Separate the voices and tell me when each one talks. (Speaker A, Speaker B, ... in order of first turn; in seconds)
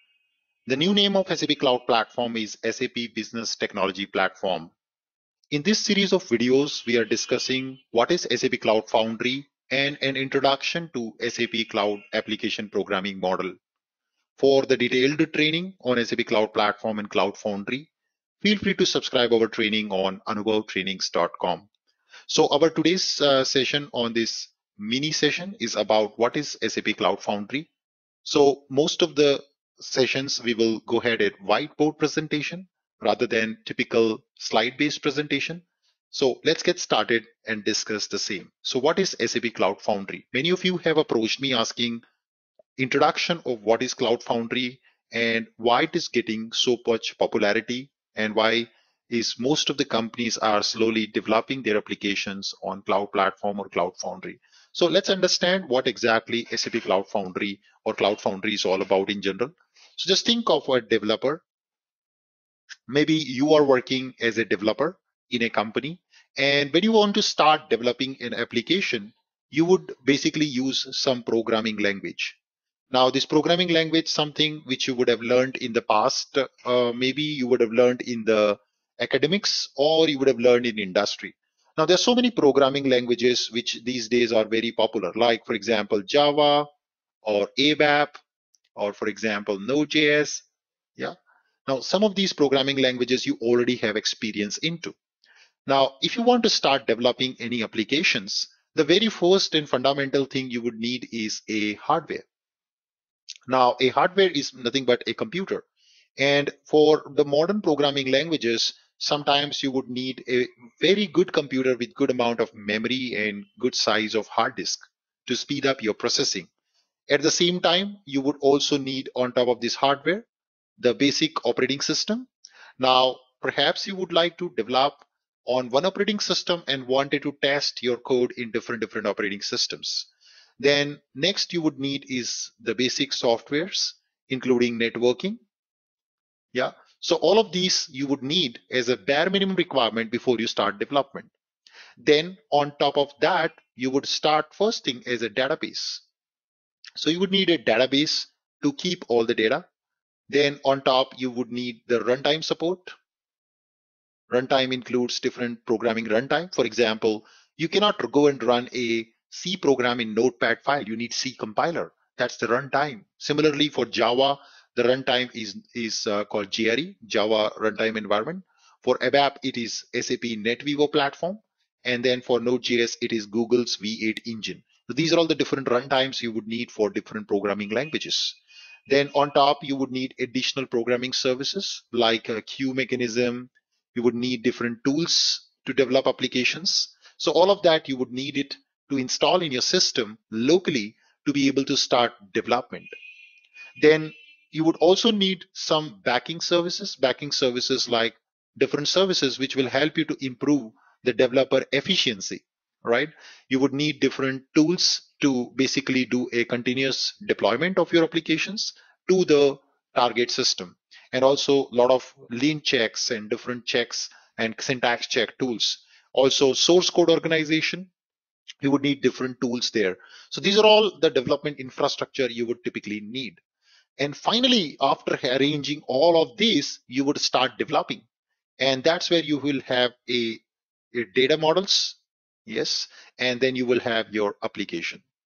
Speaker A: 0.7-4.7, 5.5-13.5, 14.4-17.9, 18.4-21.7, 22.3-27.7, 28.2-42.0, 42.8-61.4, 62.9-72.4, 72.9-86.7, 87.2-88.2, 88.8-90.5, 91.7-94.9, 95.7-102.2, 103.5-105.6, 106.2-116.5, 117.1-120.2, 120.8-122.3, 122.8-135.4, 136.5-141.3, 142.0-146.0, 147.0-149.6, 150.3-152.9, 154.3-192.9, 193.8-217.9, 218.6-223.4, 224.0-228.0, 228.6-230.4, 230.9-235.0